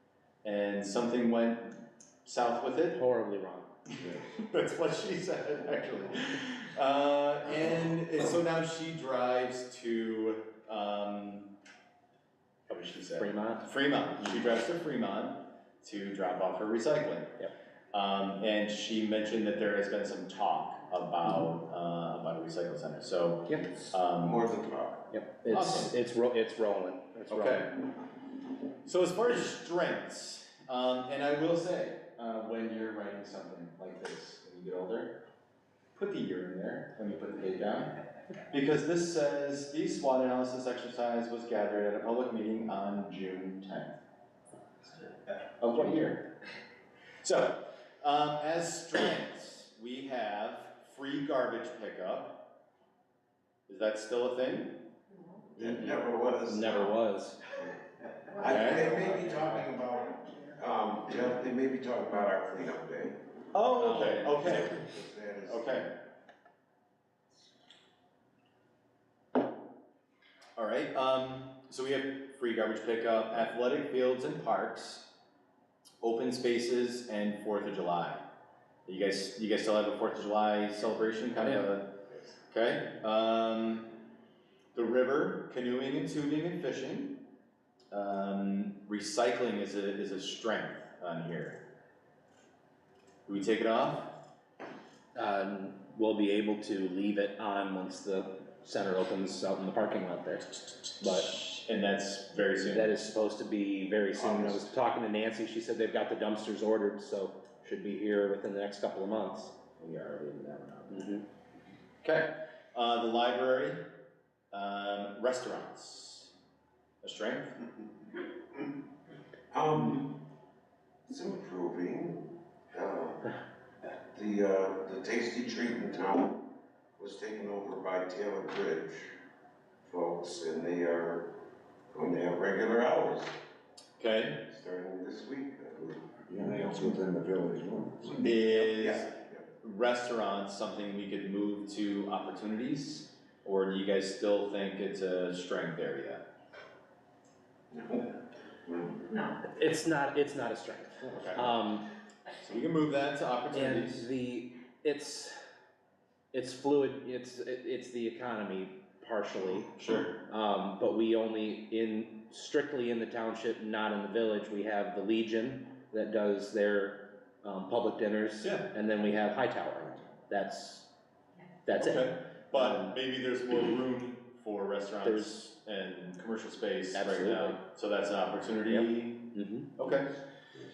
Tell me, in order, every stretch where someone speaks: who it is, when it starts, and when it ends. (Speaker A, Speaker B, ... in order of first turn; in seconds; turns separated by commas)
Speaker A: 0.4-3.0, Speaker B: 2.9-3.7, Speaker C: 4.0-4.3, Speaker A: 4.0-11.5, Speaker A: 12.7-17.3, Speaker B: 13.1-13.6, Speaker A: 17.9-24.5, Speaker D: 24.2-25.1, Speaker B: 25.1-27.7, Speaker A: 25.5-25.9, Speaker A: 27.3-27.7, Speaker A: 28.9-35.2, Speaker A: 35.9-37.9, Speaker A: 38.5-44.0, Speaker A: 44.9-46.3, Speaker A: 47.2-52.5, Speaker A: 53.7-54.8, Speaker D: 55.6-57.0, Speaker B: 55.6-57.4, Speaker D: 58.4-63.3, Speaker A: 58.4-58.9, Speaker A: 63.5-64.8, Speaker B: 63.9-64.2, Speaker D: 64.2-65.8, Speaker A: 65.5-65.9, Speaker A: 70.6-75.1, Speaker A: 76.0-78.2, Speaker A: 78.9-83.9, Speaker A: 84.7-87.2, Speaker A: 87.9-91.6, Speaker A: 93.3-94.1, Speaker B: 95.2-101.3, Speaker A: 101.0-102.9, Speaker B: 102.7-109.5, Speaker A: 104.2-104.6, Speaker A: 109.8-111.1, Speaker B: 110.9-111.2, Speaker A: 112.0-113.8, Speaker A: 114.5-116.3, Speaker A: 117.0-117.6, Speaker D: 119.5-120.2, Speaker D: 121.1-123.3, Speaker D: 123.9-126.4, Speaker D: 127.0-129.2, Speaker D: 129.8-131.3, Speaker D: 131.9-133.3, Speaker A: 134.0-134.4, Speaker D: 134.5-136.2, Speaker C: 136.3-138.3, Speaker A: 138.2-146.2, Speaker D: 138.6-139.5, Speaker D: 147.7-149.3, Speaker B: 149.4-151.8, Speaker A: 151.1-151.5, Speaker A: 152.4-154.1, Speaker B: 153.5-155.4, Speaker B: 156.3-170.9, Speaker A: 159.7-160.2, Speaker A: 168.4-168.7, Speaker B: 171.7-172.9, Speaker A: 171.8-180.1, Speaker B: 175.0-175.3, Speaker B: 176.9-177.6, Speaker B: 178.7-179.7